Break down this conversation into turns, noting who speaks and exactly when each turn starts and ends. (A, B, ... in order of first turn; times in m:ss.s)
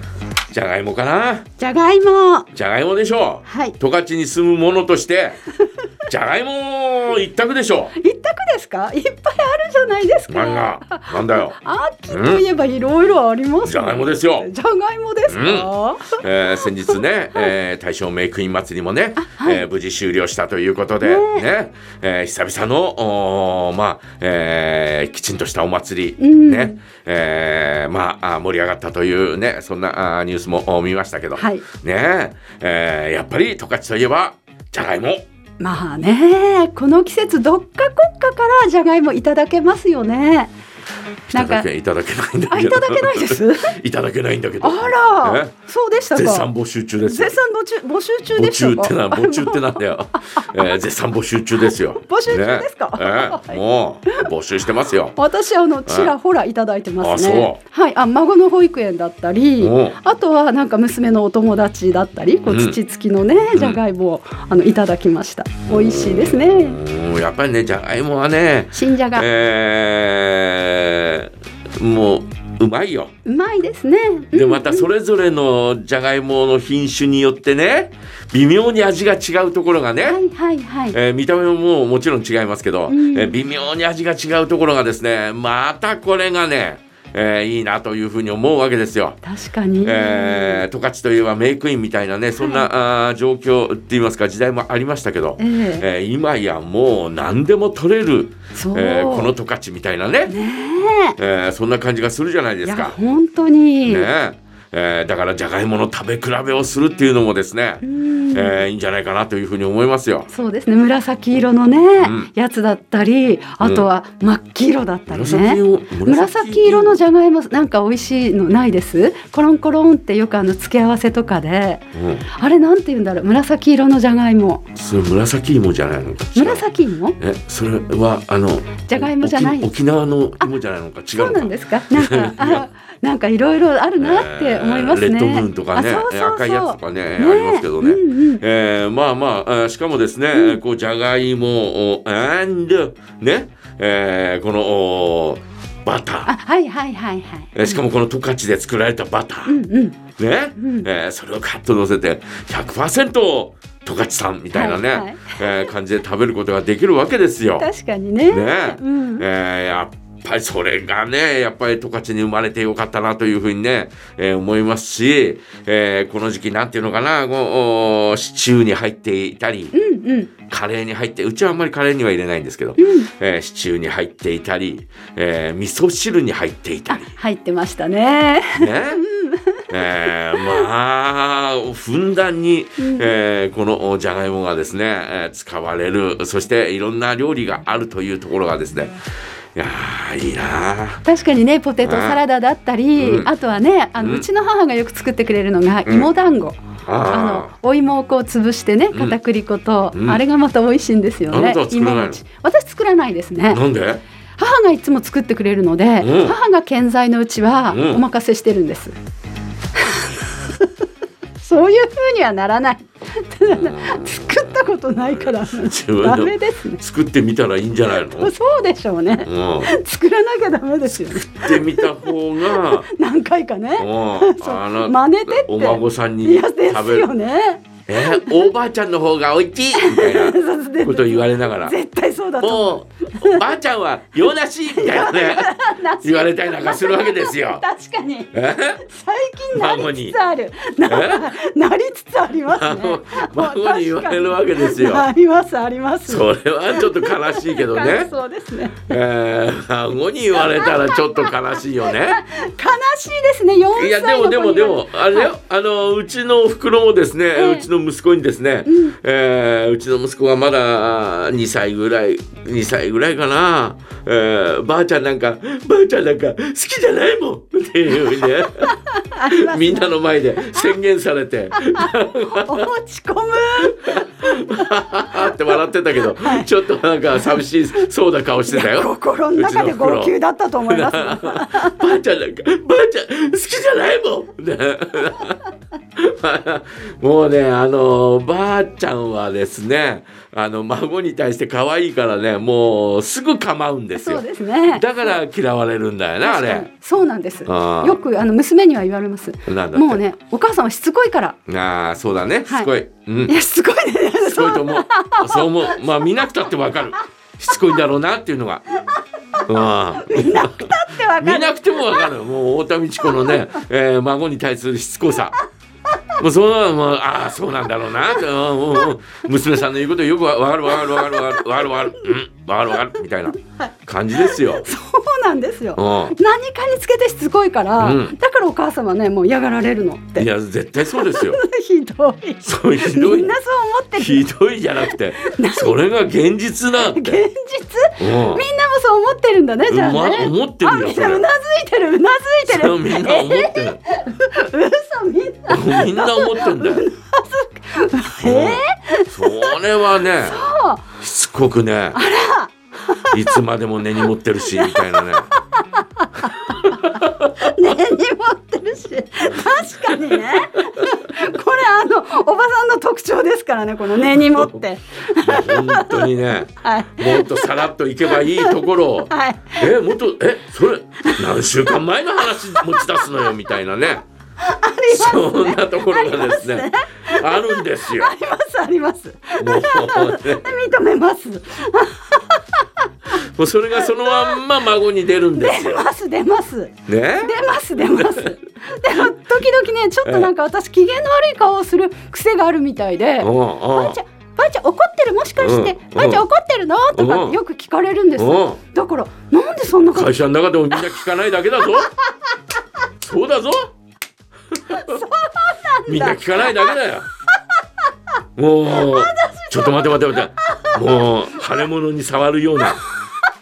0:00.5-0:01.5 A
0:01.6-0:02.5 B
0:02.5-0:05.4 A
0:03.5-0:03.8 B
0:06.1-0:08.0 A
0:08.0-0:16.2 B
0:10.3-0:11.6 A
0:12.1-0:12.4 A
0:13.6-0:14.5 A
0:15.3-0:35.3 A
0:19.2-0:19.7 B
0:21.0-0:21.5 B
0:26.2-0:26.8 B
0:31.4-0:31.6 B
0:35.6-0:40.5 B
0:41.3-0:45.5 A
0:41.3-0:41.7 B
0:42.5-0:43.7 B
0:44.6-0:46.5 B
0:46.1-0:47.4 A
0:47.0-0:50.8 B
0:48.4-0:55.2 A
0:51.9-0:54.3 B
0:55.2-1:06.8 B
0:55.9-0:56.1 A
0:57.0-0:57.6 A
0:59.6-1:00.0 A
1:02.5-1:02.8 A
1:03.5-1:03.8 A
1:05.7-1:13.1 A
1:08.7-1:09.3 B
1:13.2-1:14.9 B
1:14.3-1:20.2 A
1:20.0-1:21.0 B
1:20.9-1:29.2 A
1:22.9-1:23.4 B
1:29.2-1:30.6 B
1:29.8-1:40.3 A
1:32.4-1:32.7 B
1:35.4-1:35.8 B
1:38.6-1:39.3 B
1:40.3-1:41.2 B
1:41.2-1:43.0 A
1:42.6-1:44.1 B
1:43.9-1:50.3 A
1:47.8-1:48.6 B
1:50.3-2:04.6 B
1:52.0-1:52.3 A
1:53.6-1:53.9 A
1:55.1-1:57.0 A
2:01.9-2:02.3 A
2:04.7-2:06.6 A
2:06.4-2:07.2 B
2:07.2-2:12.6 A
2:08.9-2:09.8 B
2:11.2-2:18.4 B
2:14.0-2:26.3 A
2:20.3-2:20.6 B
2:26.2-2:27.8 B
2:27.5-2:29.6 A
2:29.5-2:30.0 B
2:30.2-2:37.7 A
2:30.6-2:30.9 B
2:34.5-2:35.7 B
2:37.6-2:39.2 B
2:38.3-2:49.7 A
2:49.7-2:50.3 B
2:50.5-2:57.1 A
2:52.8-2:53.1 B
2:56.9-3:00.7 B
2:58.6-2:59.0 A
2:59.7-3:09.0 A
3:02.8-3:03.1 B
3:09.6-3:11.0 A
3:11.0-3:23.6 B
3:11.8-3:12.2 A
3:13.0-3:13.3 A
3:14.0-3:14.3 A
3:16.9-3:17.5 A
3:19.9-3:20.2 A
3:21.3-3:22.2 A
3:23.5-3:24.0 A
3:24.4-3:28.9 B
3:26.0-3:26.4 A
3:27.7-3:28.0 A
3:29.8-3:30.7 B
3:31.4-3:36.8 B
3:33.4-3:38.3 A
3:37.9-3:48.5 B
3:39.2-3:39.7 A
3:41.1-3:42.9 A
3:43.8-3:47.1 A
3:47.9-3:51.8 A
3:49.7-3:53.4 B
3:52.4-3:57.6 A
3:54.7-4:09.0 B
3:58.3-3:58.8 A
3:59.5-4:00.2 A
4:00.9-4:01.4 A
4:02.4-4:05.1 A
4:06.1-4:08.1 A
4:08.9-4:12.2 A
4:10.3-4:15.3 B
4:13.8-4:32.7 A
4:17.4-4:17.7 B
4:18.7-4:19.0 B
4:28.0-4:29.9 B
4:31.6-4:36.5 B
4:33.6-4:45.4 A
4:38.5-4:41.9 B
4:46.0-4:56.7 A
4:54.0-4:55.2 B
4:56.2-5:01.4 B
4:57.5-4:58.0 A
4:59.5-5:00.0 A
5:01.5-5:03.4 A
5:03.3-5:05.8 B
5:04.2-5:08.6 A
5:09.4-5:12.1 B
5:09.5-5:15.4 A
5:13.0-5:13.5 B
5:16.2-5:24.7 A
5:20.7-5:21.9 B
5:24.2-5:30.3 B
5:25.8-5:26.2 A
5:27.8-5:28.2 A
5:30.2-5:31.4 A
5:30.8-5:34.3 B
5:32.4-5:33.3 A
5:33.9-5:37.2 A
5:34.8-5:35.8 B
5:36.8-5:49.6 B
5:38.0-5:38.4 A
5:39.7-5:41.3 A
5:42.5-5:43.8 A
5:45.5-5:46.8 A
5:48.2-5:50.5 A
5:50.1-5:50.9 B
5:51.0-5:52.0 A
5:51.9-5:53.4 B
5:53.1-5:55.3 A
5:54.4-6:09.7 B
5:56.3-5:57.4 A
5:59.8-6:00.8 A
6:04.3-6:04.6 A
6:05.2-6:14.0 A
6:11.0-6:13.3 B
6:14.4-6:22.9 B
6:14.9-6:18.1 A
6:19.4-6:20.6 A
6:23.1-6:25.8 A
6:23.7-6:24.4 B
6:25.3-6:40.2 B
6:26.9-6:27.4 A
6:27.9-6:28.3 A
6:33.2-6:34.0 A
6:35.4-6:36.2 A
6:37.0-6:37.4 A
6:38.2-6:38.6 A
6:39.9-6:41.9 A
6:43.0-6:43.7 A
6:44.7-6:45.0 A
6:44.7-6:46.8 B
6:45.9-6:47.1 A
6:48.4-6:52.8 A
6:48.6-6:51.1 B
6:52.9-6:53.2 B